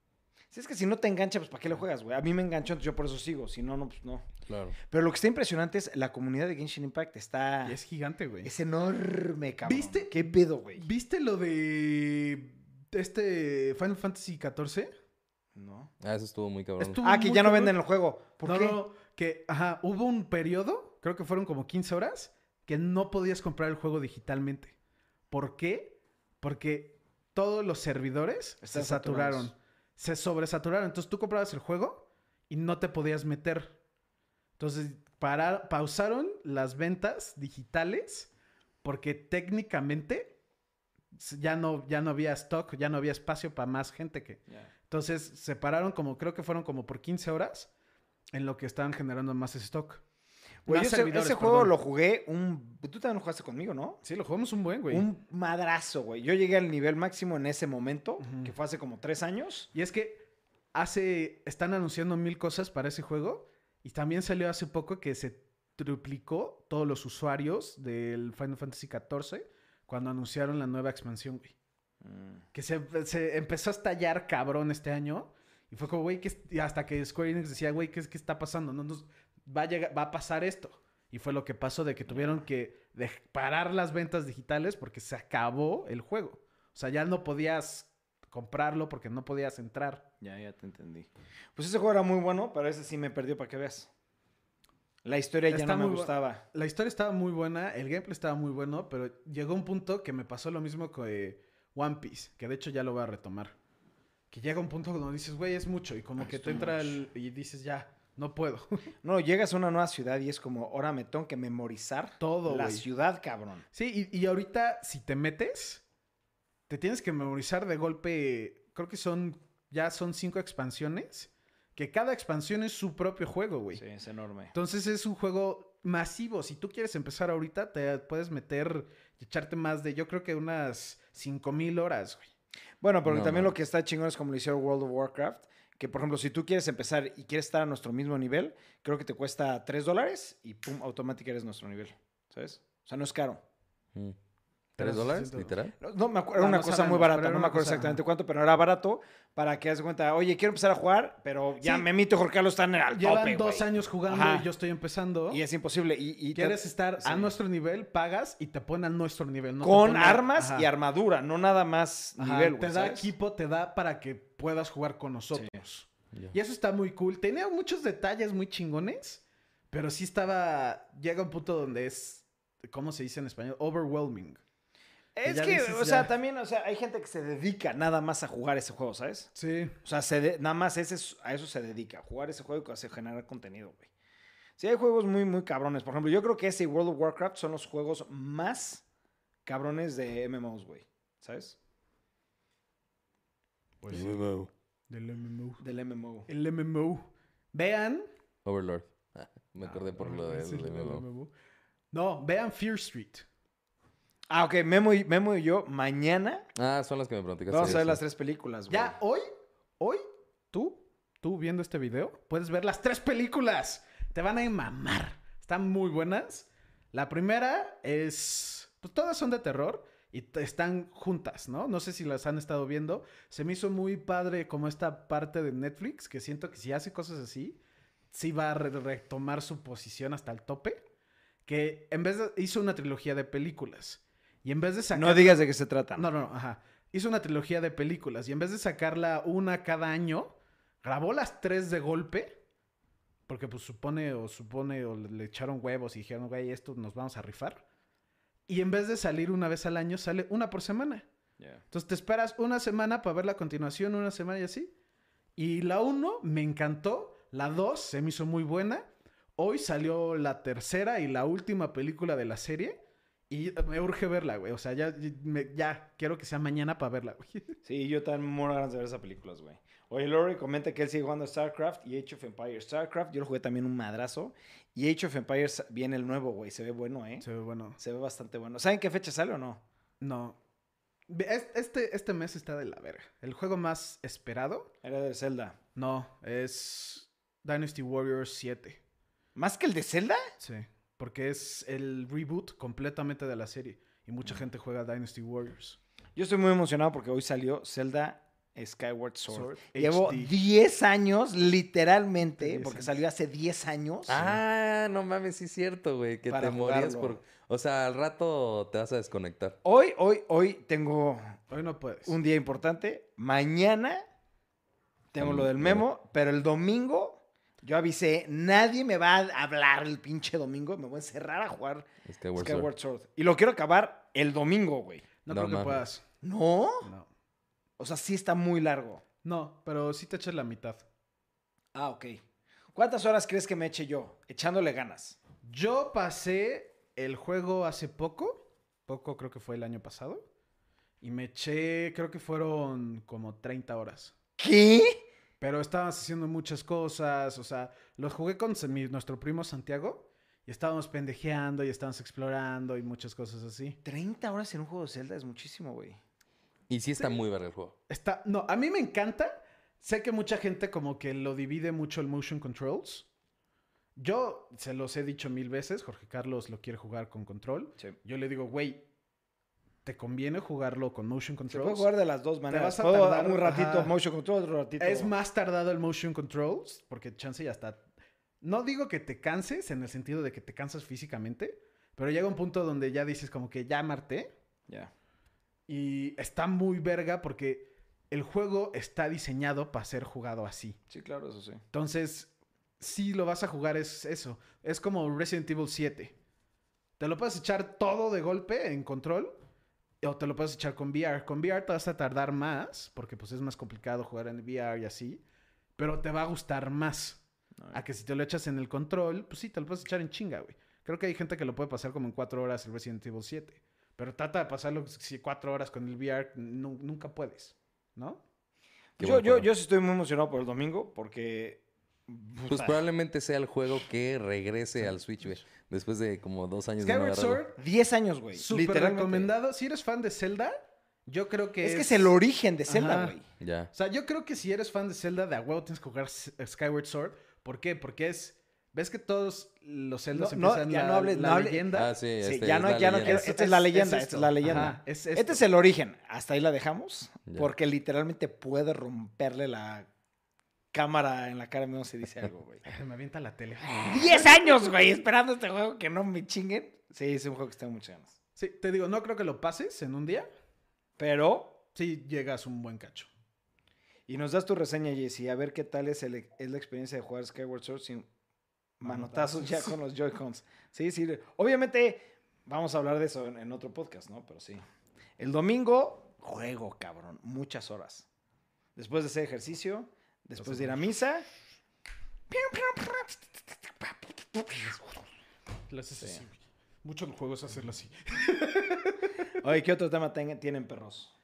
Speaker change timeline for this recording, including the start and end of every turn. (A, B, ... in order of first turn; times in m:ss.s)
0:00.5-0:04.2 A
0:04.5-0:04.8 B
0:04.9-0:07.8 A
0:07.6-0:08.5 C
0:08.4-0:10.8 A
0:09.6-0:14.9 C
0:15.5-0:15.9 A
0:16.0-0:17.0 B
0:16.8-0:17.8 C
0:17.0-0:18.8 A
0:18.4-0:24.7 C
0:25.3-0:33.8 C
0:28.6-0:29.5 A
0:34.6-0:38.3 C
0:38.8-0:40.4 C
0:41.1-0:47.7 C
0:48.3-0:50.0 C
0:50.6-0:54.0 A
0:50.7-0:51.7 C
0:54.0-0:55.1 C
0:54.9-0:59.7 A
0:58.2-0:58.5 C
0:59.7-1:00.2 C
1:00.7-1:11.5 C
1:12.0-1:12.4 A
1:12.5-1:30.0 C
1:22.1-1:22.4 A
1:30.2-1:33.9 A
1:35.0-1:36.4 A
1:35.5-1:43.5 C
1:44.3-1:48.9 C
1:46.2-1:47.0 A
1:49.0-1:53.6 A
1:52.2-1:52.8 C
1:53.7-1:55.8 C
1:56.7-2:03.8 C
2:03.7-2:04.5 A
2:04.5-2:12.3 C
2:12.8-2:23.4 A
2:13.0-2:13.5 B
2:24.8-2:25.6 C
2:24.8-2:25.7 B
2:25.8-2:34.5 A
2:26.4-2:28.0 C
2:31.6-2:31.8 C
2:33.0-2:35.4 C
2:35.3-2:37.3 A
2:36.3-2:40.7 C
2:39.6-2:43.1 A
2:42.2-2:54.4 C
2:45.3-2:45.6 A
2:55.1-2:59.3 A
2:55.2-2:56.1 C
2:59.4-2:59.7 C
2:59.8-3:03.9 A
3:04.6-3:08.8 A
3:09.4-3:11.6 A
3:13.8-3:14.2 C
3:13.9-3:14.5 B
3:14.9-3:15.6 C
3:15.6-3:16.3 A
3:16.3-3:18.0 C
3:18.4-3:21.0 B
3:19.7-3:21.3 C
3:21.9-3:23.2 C
3:24.3-3:26.5 A
3:26.6-3:28.0 B
3:27.5-3:29.0 A
3:28.7-3:29.3 C
3:29.8-3:47.6 C
3:48.1-3:50.8 C
3:51.4-4:02.3 C
3:54.9-3:56.1 A
4:03.3-4:07.6 C
4:08.5-4:11.0 C
4:11.7-4:14.7 C
4:15.4-4:18.8 C
4:19.4-4:22.8 C
4:23.3-4:27.6 C
4:27.6-4:37.2 A
4:37.2-4:37.8 C
4:37.8-4:39.6 A
4:40.0-4:40.4 C
4:41.1-4:44.7 C
4:44.8-4:45.6 A
4:45.8-4:48.8 C
4:49.4-4:50.2 A
4:50.4-4:55.8 C
4:56.2-5:04.3 A
4:59.3-5:00.3 C
5:02.2-5:03.0 C
5:04.1-5:09.6 B
5:06.3-5:07.2 A
5:09.6-5:11.3 A
5:11.5-5:12.1 C
5:12.1-5:14.0 A
5:15.1-5:25.1 A
5:15.2-5:15.8 B
5:22.0-5:22.7 B
5:25.2-5:26.0 C
5:25.3-5:25.8 B
5:26.2-5:26.9 A
5:26.8-5:27.1 C
5:27.8-5:29.0 A
5:29.2-5:30.8 C
5:31.7-5:32.2 A
5:32.7-5:35.2 A
5:35.4-5:40.2 C
5:41.0-5:44.1 C
5:44.4-5:45.0 A
5:45.4-5:53.8 C
5:53.8-5:56.0 A
5:56.7-5:57.7 B
5:57.9-6:03.1 C
6:04.0-6:08.8 C
6:09.8-6:11.9 C
6:11.5-6:15.1 A
6:12.5-6:13.9 C
6:14.8-6:17.8 C
6:18.4-6:24.3 C
6:25.7-6:30.8 C
6:30.9-6:31.6 A
6:31.7-6:36.1 C
6:37.0-6:39.4 C
6:40.0-6:45.2 C
6:45.8-6:47.2 C
6:47.7-6:58.2 C
6:59.0-7:02.8 A
6:59.0-6:59.5 B
7:02.5-7:07.4 B
7:06.8-7:07.6 C
7:07.6-7:09.3 A
7:08.3-7:12.1 C
7:11.6-7:13.2 A
7:12.7-7:13.2 C
7:13.4-7:13.7 B
7:13.7-7:21.9 C
7:20.1-7:29.9 A
7:21.7-7:23.3 B
7:23.0-7:25.4 C
7:30.7-7:32.6 A
7:32.6-7:34.7 C
7:33.8-7:38.2 A
7:38.4-7:40.3 C
7:41.0-7:41.6 A
7:41.7-7:43.1 C
7:44.1-7:48.0 A
7:48.8-7:54.6 A
7:48.8-7:49.8 C
7:55.2-7:58.1 A
7:58.8-8:01.3 A
8:00.4-8:00.8 C
8:02.3-8:03.3 A
8:03.8-8:05.0 A
8:05.7-8:09.3 C
8:09.4-8:11.1 A